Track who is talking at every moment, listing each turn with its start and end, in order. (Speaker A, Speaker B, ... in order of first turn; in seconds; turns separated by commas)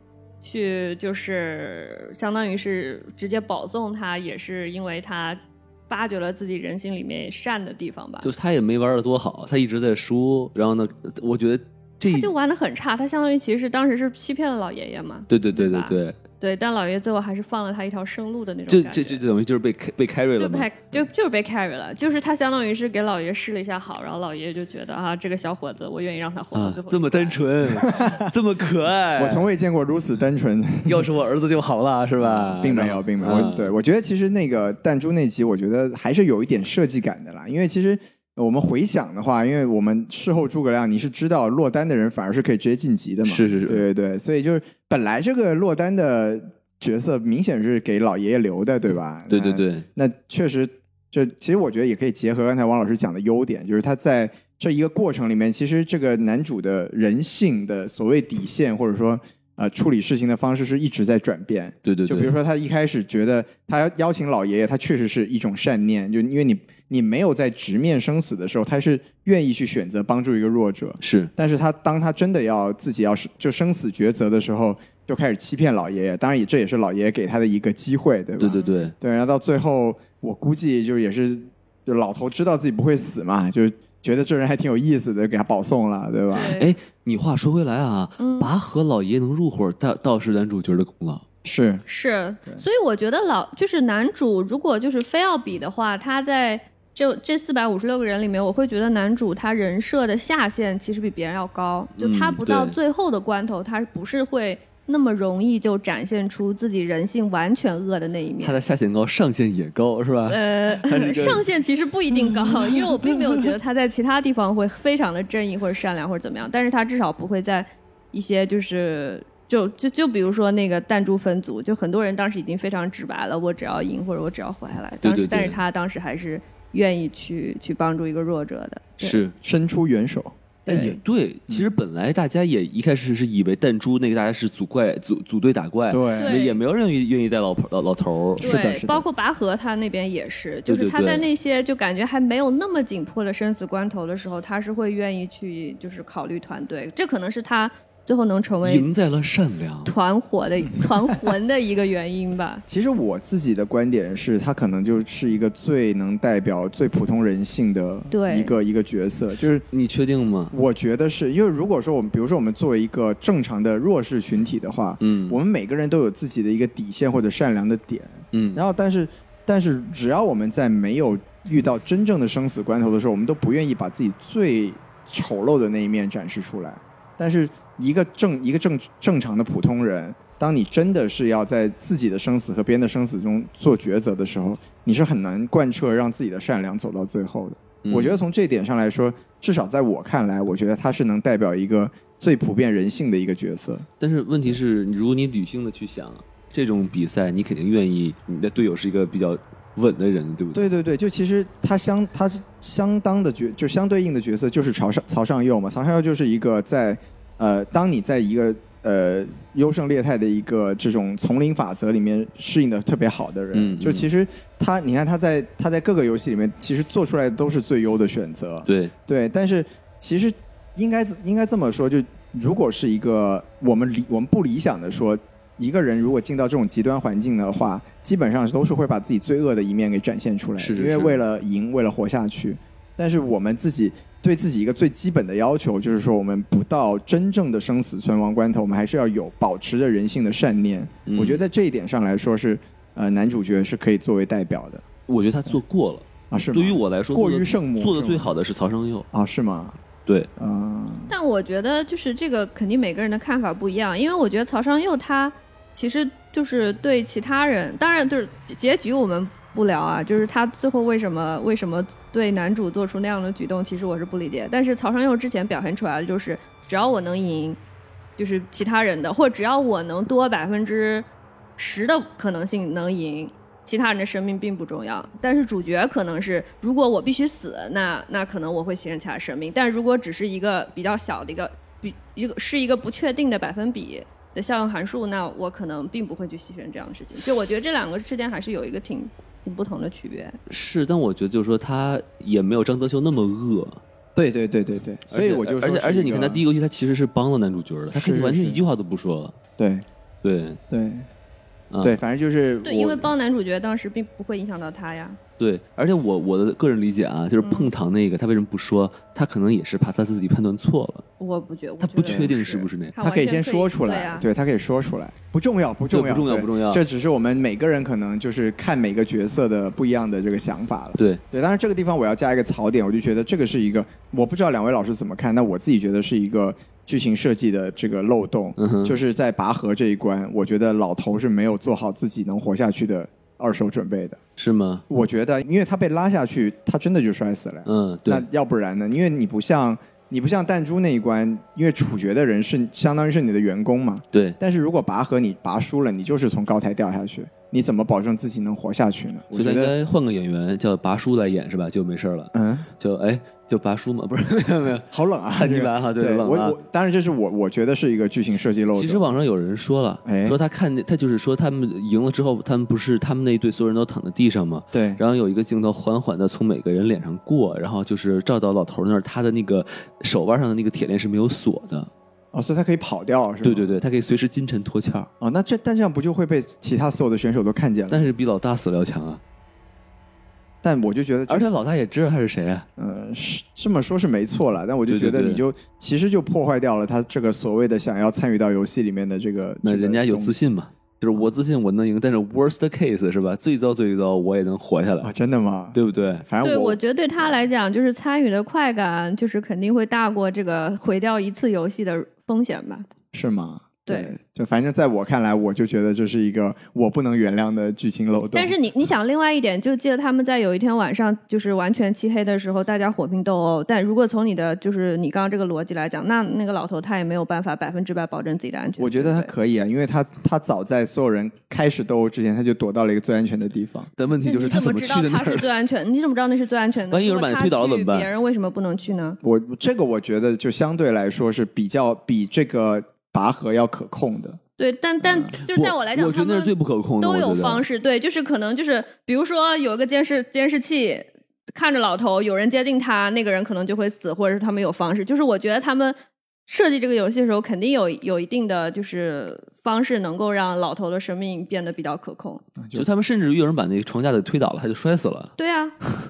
Speaker A: 0.4-8.3, Speaker B: 8.2-12.3, Speaker A: 12.1-19.2, Speaker B: 15.3-16.2, Speaker B: 18.7-21.0, Speaker A: 20.4-27.4, Speaker B: 26.5-29.5, Speaker C: 27.7-28.3, Speaker C: 29.2-31.1, Speaker B: 30.9-33.7, Speaker C: 32.2-86.6, Speaker B: 43.2-43.9, Speaker B: 49.3-49.9, Speaker B: 61.9-62.4, Speaker B: 71.0-71.3, Speaker B: 78.4-78.9, Speaker A: 86.3-86.7, Speaker B: 86.5-91.2, Speaker A: 88.2-88.5, Speaker C: 91.4-91.8, Speaker A: 91.9-108.6, Speaker B: 102.0-102.8, Speaker B: 108.4-111.5, Speaker A: 110.3-129.2, Speaker B: 112.1-113.5, Speaker B: 125.0-125.6, Speaker B: 129.0-129.3, Speaker C: 129.4-130.3, Speaker A: 130.7-131.0, Speaker B: 130.7-138.5, Speaker C: 135.9-136.4, Speaker A: 136.2-136.6, Speaker C: 138.4-139.1, Speaker A: 138.4-148.9, Speaker B: 140.7-141.3, Speaker B: 148.6-149.9, Speaker A: 149.9-152.6, Speaker C: 152.7-159.7, Speaker A: 158.1-158.6, Speaker B: 159.7-160.5, Speaker C: 160.5-193.9, Speaker B: 165.0-165.4, Speaker B: 168.3-168.6, Speaker B: 187.8-188.2, Speaker B: 194.0-200.7, Speaker C: 200.5-244.8, Speaker B: 213.5-214.1, Speaker B: 218.7-218.9, Speaker B: 230.6-231.2, Speaker B: 241.1-241.4, Speaker B: 245.1-249.1, Speaker C: 246.3-248.3, Speaker C: 249.1-249.8, Speaker C: 250.4-251.1, Speaker A: 251.1-267.6, Speaker A: 268.2-271.1, Speaker A: 271.6-290.4, Speaker B: 290.5-293.8, Speaker C: 294.2-296.4, Speaker B: 295.1-299.4, Speaker C: 297.9-298.6, Speaker C: 299.6-299.9, Speaker B: 300.2-300.6, Speaker C: 300.7-301.1, Speaker B: 301.7-302.0, Speaker C: 301.8-303.1, Speaker A: 302.6-305.2, Speaker B: 305.4-311.1, Speaker A: 307.4-307.7, Speaker A: 311.2-314.3, Speaker B: 311.8-312.9, Speaker C: 312.0-312.4, Speaker C: 313.0-334.2, Speaker B: 315.9-316.8, Speaker B: 321.0-321.2, Speaker B: 328.6-329.0, Speaker B: 334.4-334.8, Speaker C: 334.9-349.7, Speaker B: 337.7-338.3, Speaker B: 349.3-356.6, Speaker C: 352.3-352.7, Speaker C: 354.9-359.0, Speaker B: 358.7-371.9, Speaker C: 360.1-360.4, Speaker C: 364.7-365.0, Speaker C: 372.3-373.7, Speaker B: 373.4-375.1, Speaker C: 375.2-378.1, Speaker B: 377.9-379.2, Speaker C: 380.6-381.5, Speaker B: 381.3-382.7, Speaker C: 382.8-390.4, Speaker B: 384.9-385.4, Speaker B: 389.6-395.1, Speaker C: 395.0-397.4, Speaker B: 395.7-396.2, Speaker A: 396.4-402.9, Speaker C: 403.1-408.6, Speaker A: 403.9-404.1, Speaker A: 408.3-419.3, Speaker C: 418.8-423.9, Speaker B: 424.0-425.5, Speaker A: 424.2-429.2, Speaker B: 426.9-428.1, Speaker C: 429.2-434.4, Speaker A: 434.6-452.4, Speaker B: 435.4-437.6, Speaker C: 452.6-452.9, Speaker B: 452.7-455.3, Speaker A: 455.4-455.8